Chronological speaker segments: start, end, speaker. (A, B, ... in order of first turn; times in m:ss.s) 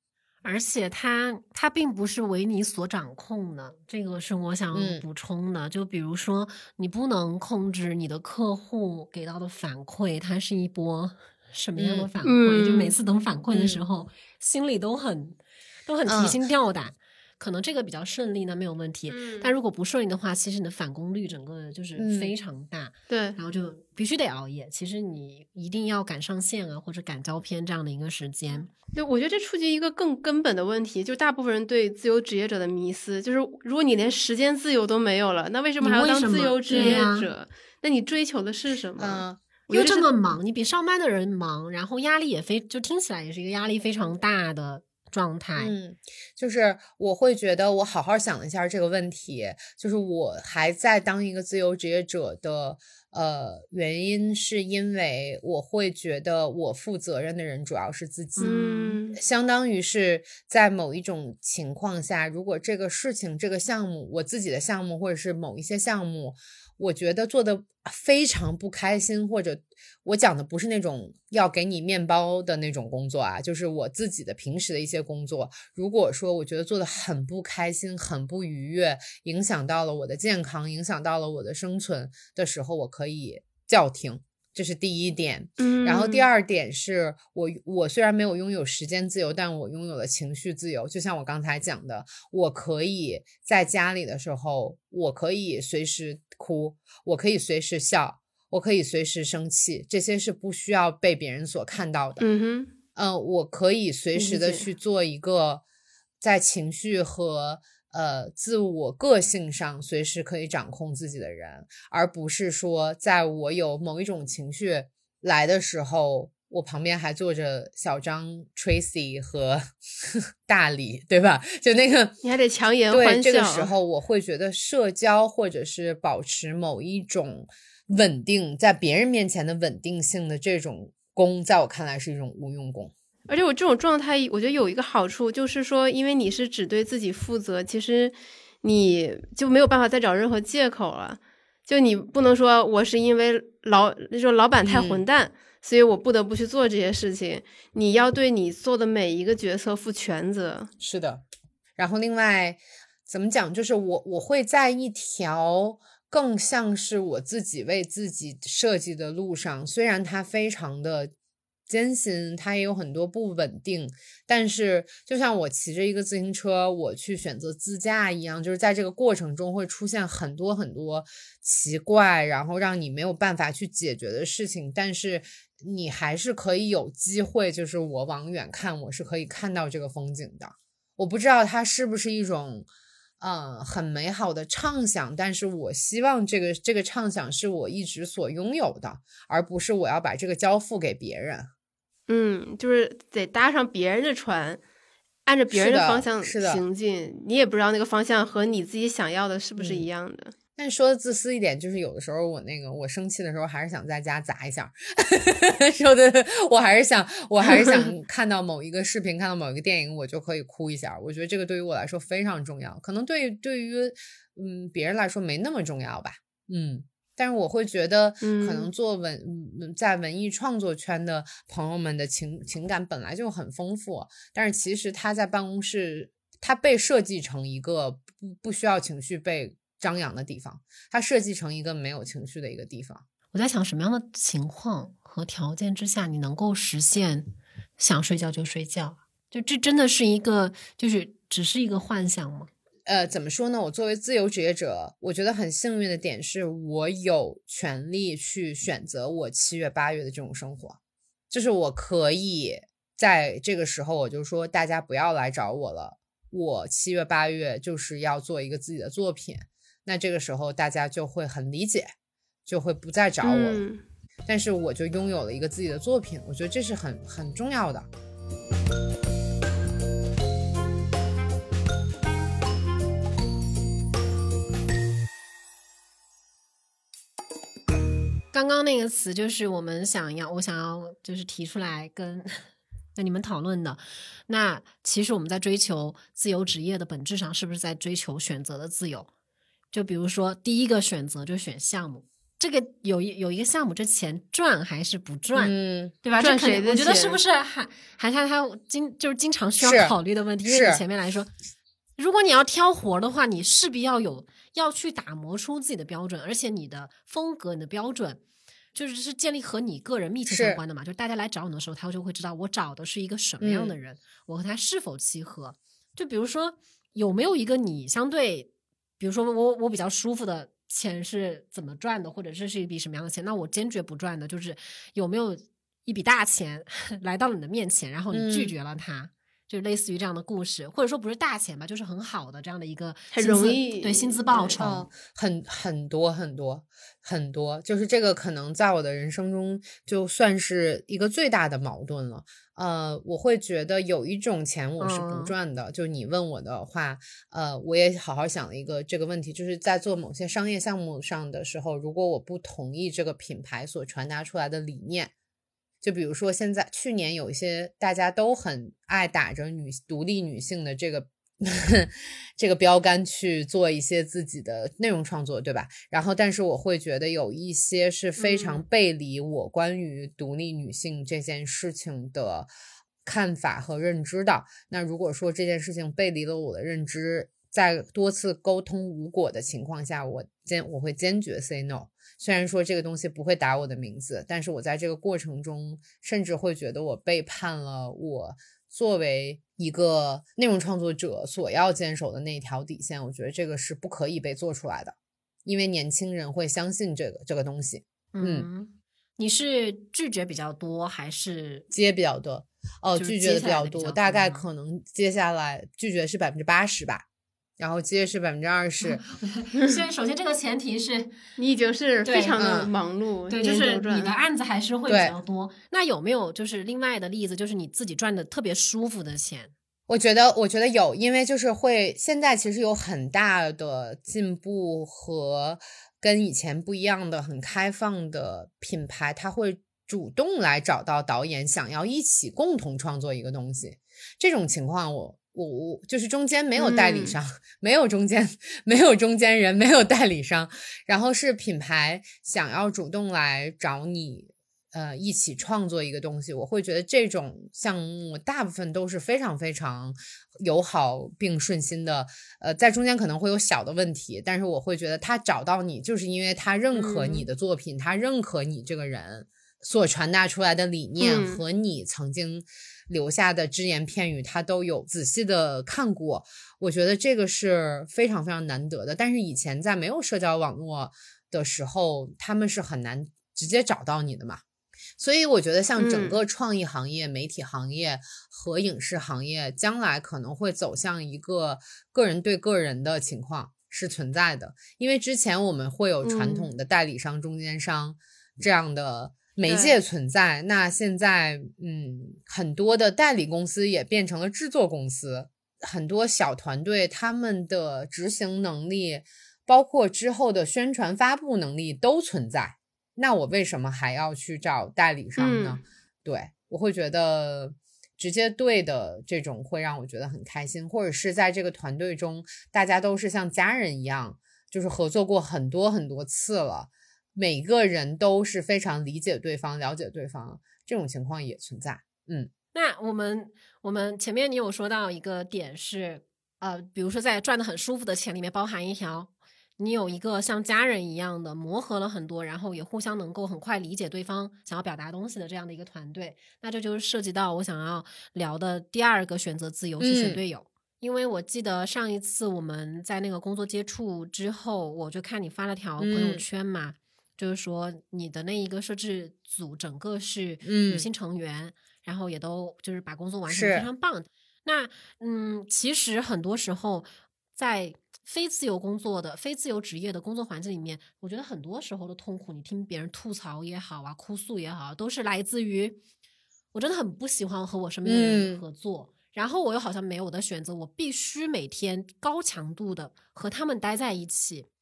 0:00.4-0:28.7 A
0:04.7-0:05.0 B
0:11.8-0:12.1 B
0:12.2-0:12.9 C
0:13.5-0:13.8 B
0:16.0-0:16.4 B
0:19.1-0:19.5 C
0:22.0-0:22.3 B
0:23.1-0:23.4 C
0:28.9-0:40.1 C
0:35.8-0:37.3 A
0:36.7-0:37.0 B
0:39.0-0:39.4 B
0:39.7-0:45.7 A
0:45.6-1:42.2 B
0:58.4-0:58.7 A
0:58.4-0:59.2 C
1:25.6-1:26.3 C
1:42.2-1:42.7 C
1:43.0-1:45.6 B
1:44.1-1:44.6 C
1:46.2-2:02.2 B
2:02.2-2:03.7 C
2:02.9-2:12.9 B
2:13.3-2:30.7 C
2:24.6-2:25.0 B
2:30.8-2:31.2 B
2:31.8-2:41.1 B
2:41.7-3:02.7 B
3:03.2-3:11.5 B
3:12.1-3:14.6 C
3:15.2-3:20.3 C
3:15.5-3:16.6 B
3:19.6-3:19.9 B
3:20.6-3:53.0 B
3:38.2-3:38.7 C
3:53.3-4:02.5 A
4:02.8-4:10.8 B
4:11.3-4:21.9 B
4:22.4-4:23.6 B
4:23.2-4:23.8 C
4:24.3-4:27.9 B
4:38.3-4:49.1 A
4:49.7-5:01.3 A
4:55.3-4:55.9 B
4:56.2-4:57.2 C
4:59.6-5:00.8 B
5:02.0-5:08.2 A
5:08.7-5:34.9 A
5:10.3-5:10.6 B
5:13.4-5:13.7 B
5:28.1-5:28.5 B
5:33.1-5:34.6 C
5:34.6-5:55.1 B
5:44.8-5:45.3 A
5:55.8-6:12.5 B
6:08.2-6:08.6 C
6:13.0-6:38.5 B
6:38.1-6:41.6 A
6:41.7-6:47.0 B
6:43.0-6:44.4 A
6:47.6-6:49.0 B
6:48.8-6:51.2 A
6:51.4-6:54.1 C
6:52.0-6:52.4 A
6:52.4-6:52.7 B
6:53.3-6:59.5 A
6:54.9-6:55.2 B
6:59.9-7:54.4 B
7:16.6-7:17.2 C
7:36.7-7:37.3 A
7:41.0-7:41.4 C
7:55.0-8:42.3 B
7:55.8-7:56.2 C
8:06.0-8:06.5 C
8:09.4-8:09.8 C
8:25.2-8:25.6 C
8:42.5-9:25.8 A
8:59.8-9:00.2 B
9:05.8-9:06.2 B
9:10.4-9:10.8 B
9:13.3-9:13.7 B
9:26.5-9:34.5 A
9:27.8-9:28.4 B